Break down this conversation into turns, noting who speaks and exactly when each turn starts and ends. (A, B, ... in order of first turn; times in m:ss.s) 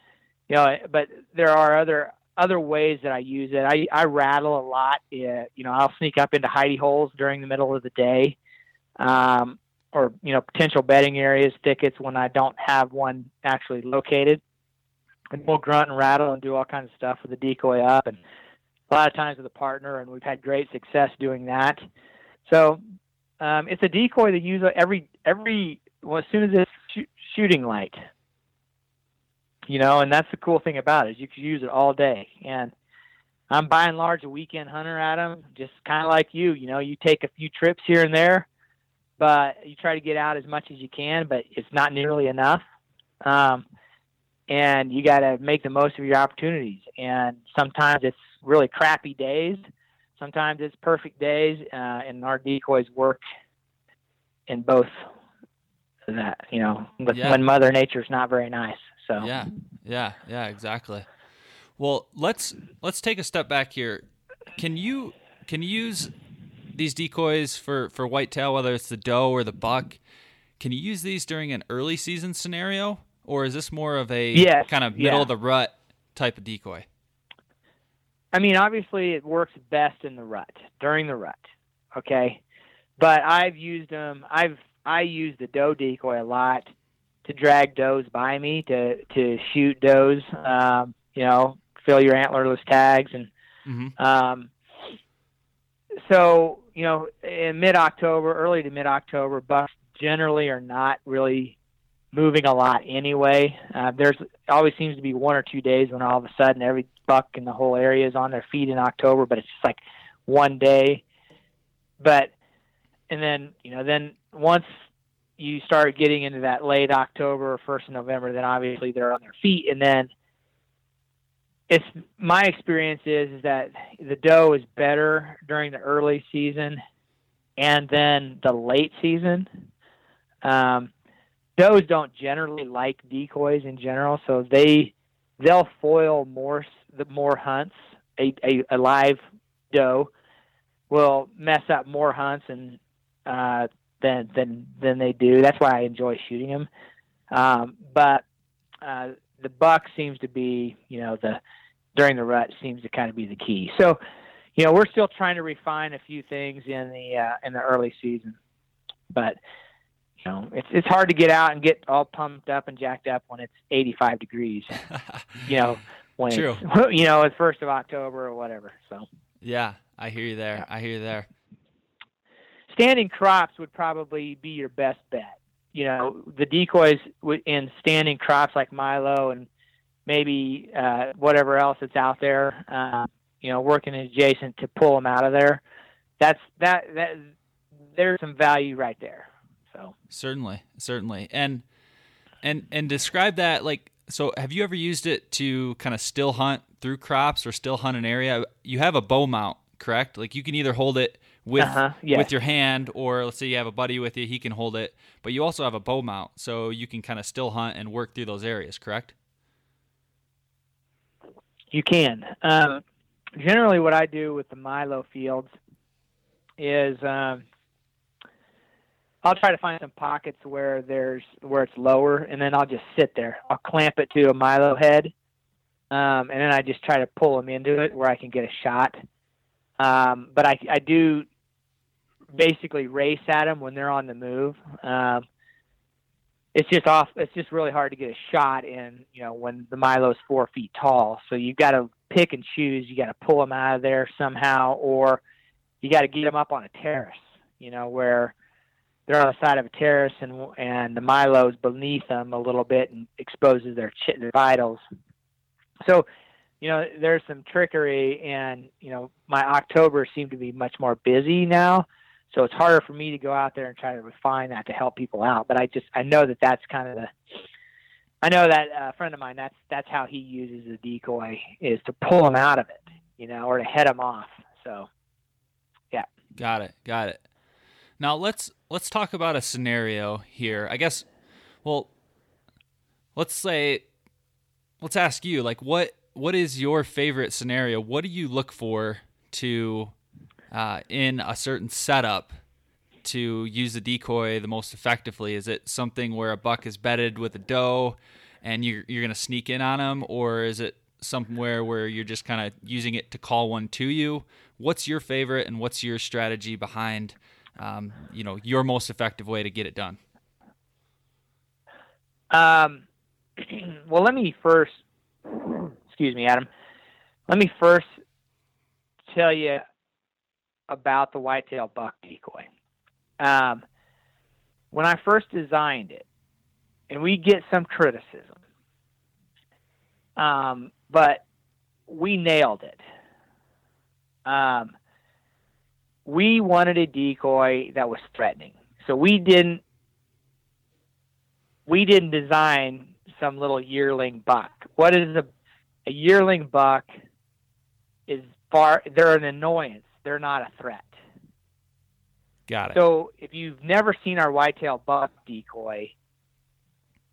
0:00.5-0:08.4 A
0:09.0-0:14.4 A
0:15.3-0:18.2 A
0:18.9-0:21.8 A
0:22.5-0:22.8 A
0:23.4-0:28.0 A
0:29.7-0:32.7 A
0:33.5-0:38.5 A
0:39.2-0:42.6 A
0:43.2-0:43.6 A
0:44.5-0:49.6 A
0:50.2-0:53.2 A
0:54.5-0:55.0 A
0:56.1-0:59.3 A
0:57.1-0:57.4 B
0:59.2-1:01.1 B
1:01.8-1:04.0 B
1:04.6-1:06.1 B
1:06.8-1:10.0 B
1:10.6-1:16.9 B
1:14.3-1:15.3 A
1:18.3-1:22.4 A
1:23.0-1:26.7 A
1:27.2-1:33.3 A
1:33.7-1:33.9 B
1:34.0-1:34.5 A
1:36.1-1:41.6 A
1:42.1-1:51.0 A
1:52.0-1:52.3 A
1:53.1-1:54.7 A
1:55.4-2:00.1 A
2:01.7-2:06.8 A
2:07.6-2:09.5 A
2:10.4-2:10.9 A
2:11.6-2:19.2 A
2:19.7-2:20.1 A
2:20.9-2:26.7 A
2:27.3-2:28.2 A
2:28.8-2:31.4 A
2:32.0-2:34.0 A
2:34.6-2:38.4 A
2:39.1-2:39.4 A
2:40.2-2:44.8 A
2:45.4-2:49.1 A
2:46.3-2:46.6 B
2:49.4-2:51.3 B
2:52.7-2:59.5 A
3:00.1-3:05.6 A
3:06.2-3:07.3 A
3:08.0-3:09.9 A
3:10.1-3:11.6 B
3:12.4-3:29.1 B
3:21.6-3:22.3 A
3:31.7-3:32.8 A
3:33.4-3:35.5 A
3:36.6-3:37.4 A
3:39.2-3:45.1 A
3:45.9-3:49.0 A
3:49.8-3:51.3 A
3:52.4-3:55.2 A
3:56.5-4:05.2 A
4:05.8-4:08.3 A
4:09.1-4:14.8 A
4:16.6-4:27.1 A
4:28.2-4:34.9 A
4:36.4-4:37.2 B
4:38.0-4:41.0 B
4:41.6-4:41.9 B
4:43.2-4:43.8 B
4:44.8-4:49.9 B
4:50.5-4:52.3 B
4:53.0-5:10.0 B
5:12.3-5:12.8 A
5:13.4-5:16.5 A
5:17.3-5:17.9 A
5:19.1-5:19.6 A
5:20.7-5:22.5 A
5:23.2-5:23.6 A
5:24.7-5:26.0 A
5:26.9-5:28.4 A
5:30.2-5:31.2 A
5:31.9-5:32.8 A
5:34.3-5:34.7 A
5:36.1-5:39.6 A
5:41.7-5:45.3 A
5:45.9-5:46.9 A
5:48.1-5:51.0 A
5:52.5-5:52.8 B
5:52.7-5:55.9 A